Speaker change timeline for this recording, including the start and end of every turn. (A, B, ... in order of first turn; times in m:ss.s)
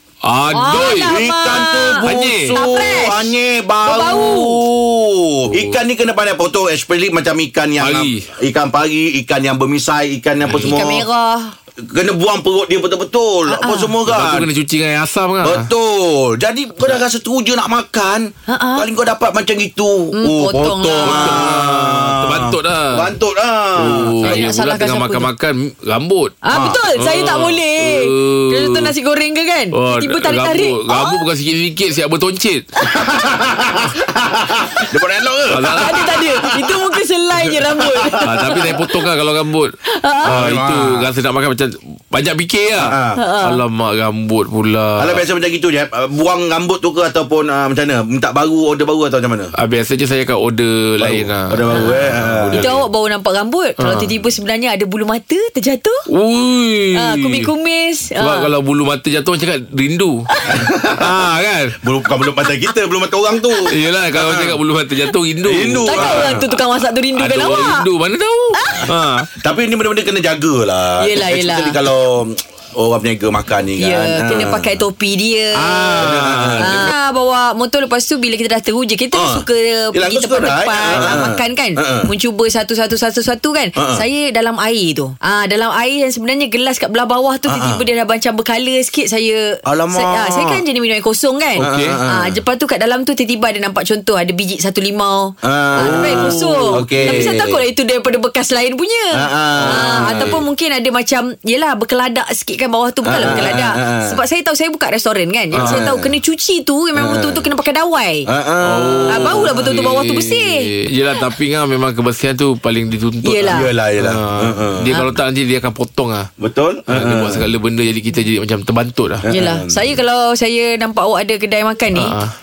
0:00.2-0:01.2 A
0:00.5-0:03.3 B
0:00.8-0:11.0 C
0:01.9-0:02.6 A
0:03.8-0:04.6 B
0:05.5-0:05.8 A
0:07.8-0:08.3 A
0:10.4-0:10.8 A
0:10.6-0:11.5 B
0:11.8-0:14.5 C
0:13.5-0:13.9 B
0:14.1-0:15.7 A
0:15.4-0:24.4 C
0:18.5-0:18.9 B
0:20.1-0:21.4 B
0:21.0-0:23.0 A
0:23.8-0:28.9 A
0:24.2-0:25.3 B
0:26.4-0:31.2 B
0:26.5-0:26.8 C
0:29.7-0:32.7 A
0:33.0-0:36.8 C
0:35.5-0:36.0 A
0:35.6-0:38.9 B
0:37.5-0:38.5 C
0:38.2-0:45.2 A
0:39.8-0:40.3 B
0:40.2-0:41.1 C
0:42.8-0:43.2 C
0:43.2-0:43.6 B
0:45.0-0:49.5 C
0:49.6-0:52.8 A
0:51.0-0:52.7 C
0:51.7-0:52.0 B
0:52.5-0:56.0 B
0:53.8-0:54.1 A
0:56.1-0:57.5 A
0:57.0-0:58.5 B
0:58.2-1:00.2 A
1:00.5-1:01.1 C
1:01.0-1:01.8 A
1:01.8-1:04.6 C
1:03.7-1:06.4 A
1:05.4-1:06.4 C
1:05.8-1:07.9 B
1:07.1-1:09.3 A
1:08.6-1:08.9 B
1:09.4-1:14.8 C
1:11.0-1:11.8 B
1:13.8-1:16.0 B
1:15.6-1:16.9 A
1:16.0-1:16.9 C
1:16.6-1:48.3 B
1:19.1-1:22.1 C
1:23.8-1:24.0 C
1:27.5-1:27.8 C
1:29.7-1:30.6 C
1:31.6-1:32.0 A
1:31.6-1:32.4 C
1:35.4-1:37.6 C
1:35.8-1:37.3 A
1:39.1-1:40.4 C
1:39.6-1:40.3 A
1:43.0-1:44.2 C
1:45.5-1:45.9 A
1:45.5-1:46.1 C
1:47.0-1:47.4 C
1:48.2-1:49.4 C
1:48.6-1:56.3 A
1:49.1-1:50.6 B
1:53.2-1:53.7 B
1:53.5-1:54.9 C
1:56.4-1:57.5 C
1:56.9-1:59.2 A
1:59.2-2:00.0 C
1:59.3-2:02.1 B
2:01.9-2:02.3 A